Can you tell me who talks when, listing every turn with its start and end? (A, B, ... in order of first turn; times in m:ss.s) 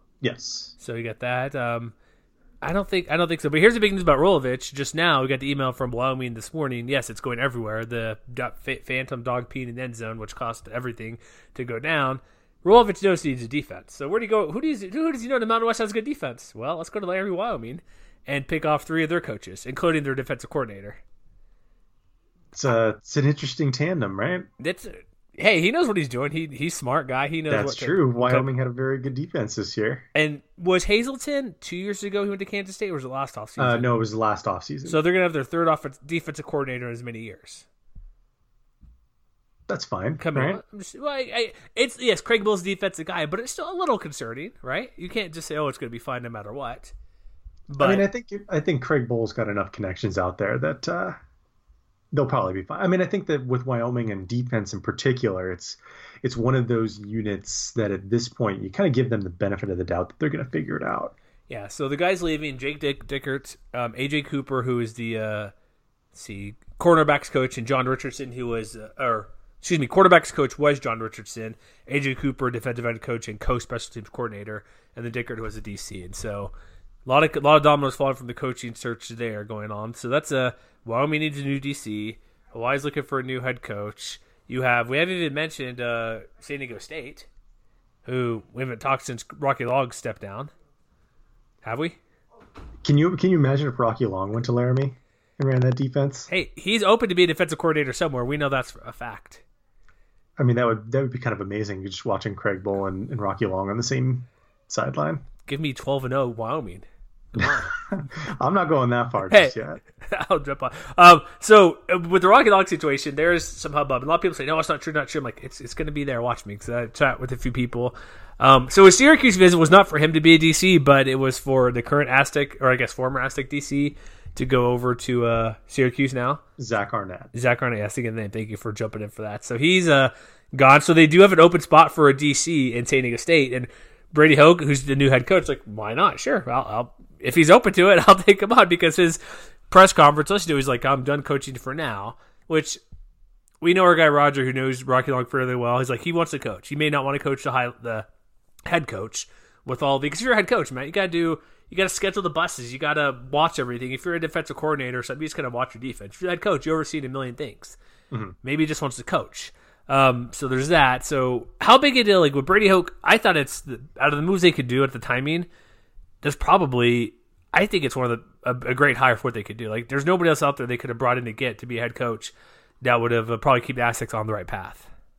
0:00.2-0:00.7 A
0:00.8-0:01.9 B
0:02.6-0:21.0 B
0:22.5-0:24.5 A
0:24.6-0:28.5 B
0:27.5-0:30.1 A
0:30.1-0:33.9 B
0:33.6-0:35.0 A
0:34.8-0:37.6 B
0:39.7-0:40.6 A
0:40.2-0:46.9 B
0:47.7-0:48.0 B
0:47.8-0:51.2 A
0:52.1-1:01.1 A
1:01.5-1:05.5 B
1:06.1-1:16.5 B
1:17.0-1:27.3 B
1:28.0-1:30.5 B
1:31.6-1:32.0 B
1:32.8-1:36.3 A
1:36.3-1:39.4 B
1:40.4-1:45.2 A
1:45.4-1:47.8 B
1:47.4-1:49.8 A
1:49.3-2:06.4 B
2:06.6-2:07.3 A
2:07.3-2:22.8 B
2:23.6-2:28.1 B
2:28.6-2:37.8 B
2:38.1-2:38.4 A
2:38.4-2:45.5 B
2:46.2-2:54.9 B